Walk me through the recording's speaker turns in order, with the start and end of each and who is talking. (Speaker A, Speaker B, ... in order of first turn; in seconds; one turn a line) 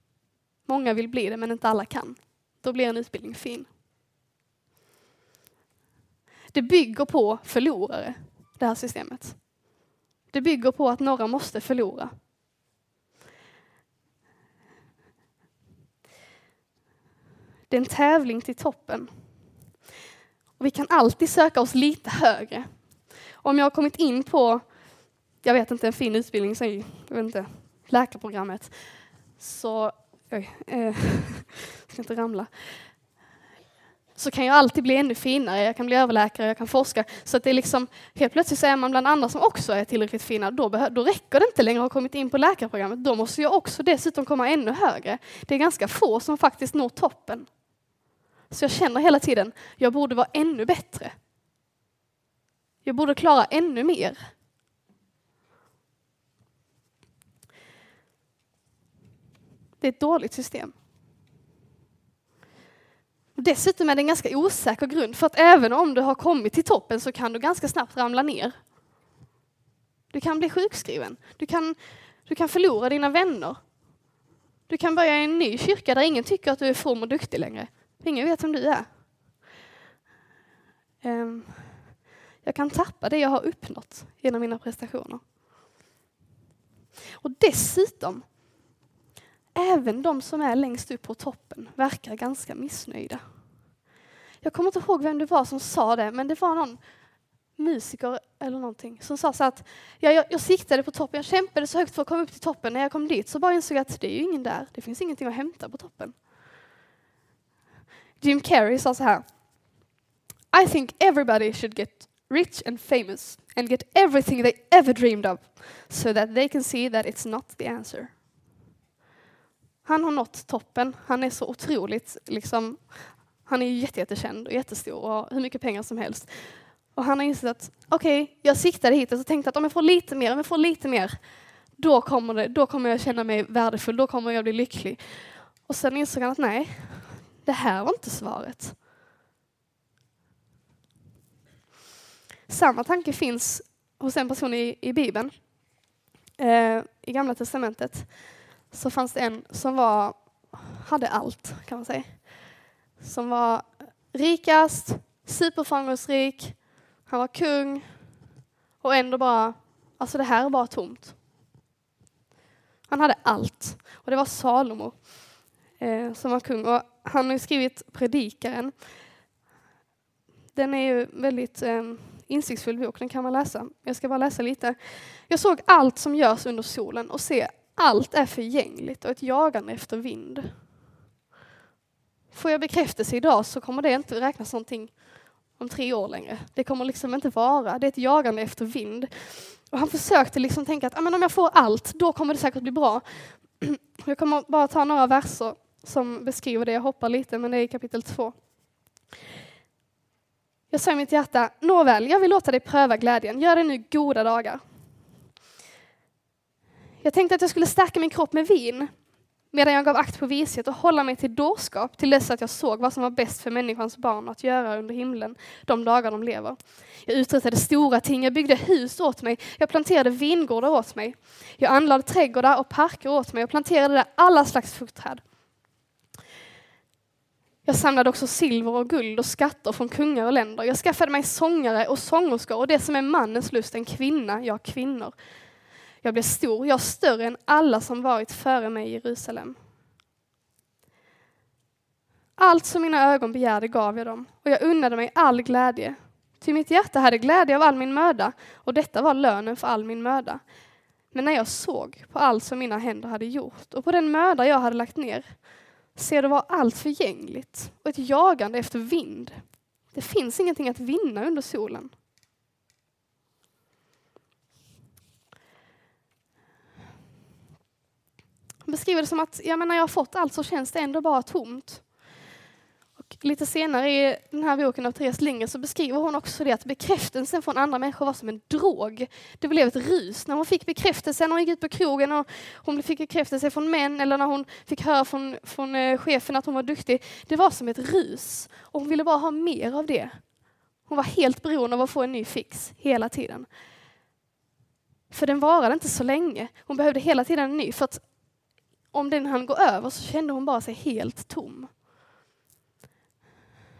Speaker A: 0.6-3.7
Speaker A: 6.5-9.5
Speaker A: 10.3-12.1
Speaker A: 17.7-19.1
Speaker A: 20.6-24.8
Speaker A: 25.4-32.9
Speaker A: 34.1-47.5
Speaker A: 48.5-51.1
Speaker A: 52.8-54.3
Speaker A: 59.8-60.7
Speaker A: 63.4-68.6
Speaker A: 70.1-73.7
Speaker A: 74.7-78.9
Speaker A: 81.0-85.2
Speaker A: 87.2-88.3
Speaker A: 89.5-93.2
Speaker A: 94.4-96.8
Speaker A: 97.5-106.2
Speaker A: 108.2-109.8
Speaker A: 110.5-118.2
Speaker A: 119.8-138.8
Speaker A: 142.5-145.6
Speaker A: 146.4-158.1
Speaker A: 158.8-161.1
Speaker A: 162.9-168.8
Speaker A: 170.5-180.6
Speaker A: 182.3-198.4
Speaker A: 200.7-204.6
Speaker A: 207.0-225.2
Speaker A: 227.6-235.2
Speaker A: 236.0-239.6
Speaker A: 242.4-250.4
Speaker A: 251.1-261.9
Speaker A: 268.6-271.9
Speaker A: 273.1-293.5
Speaker A: 295.1-298.1
Speaker A: 298.9-301.7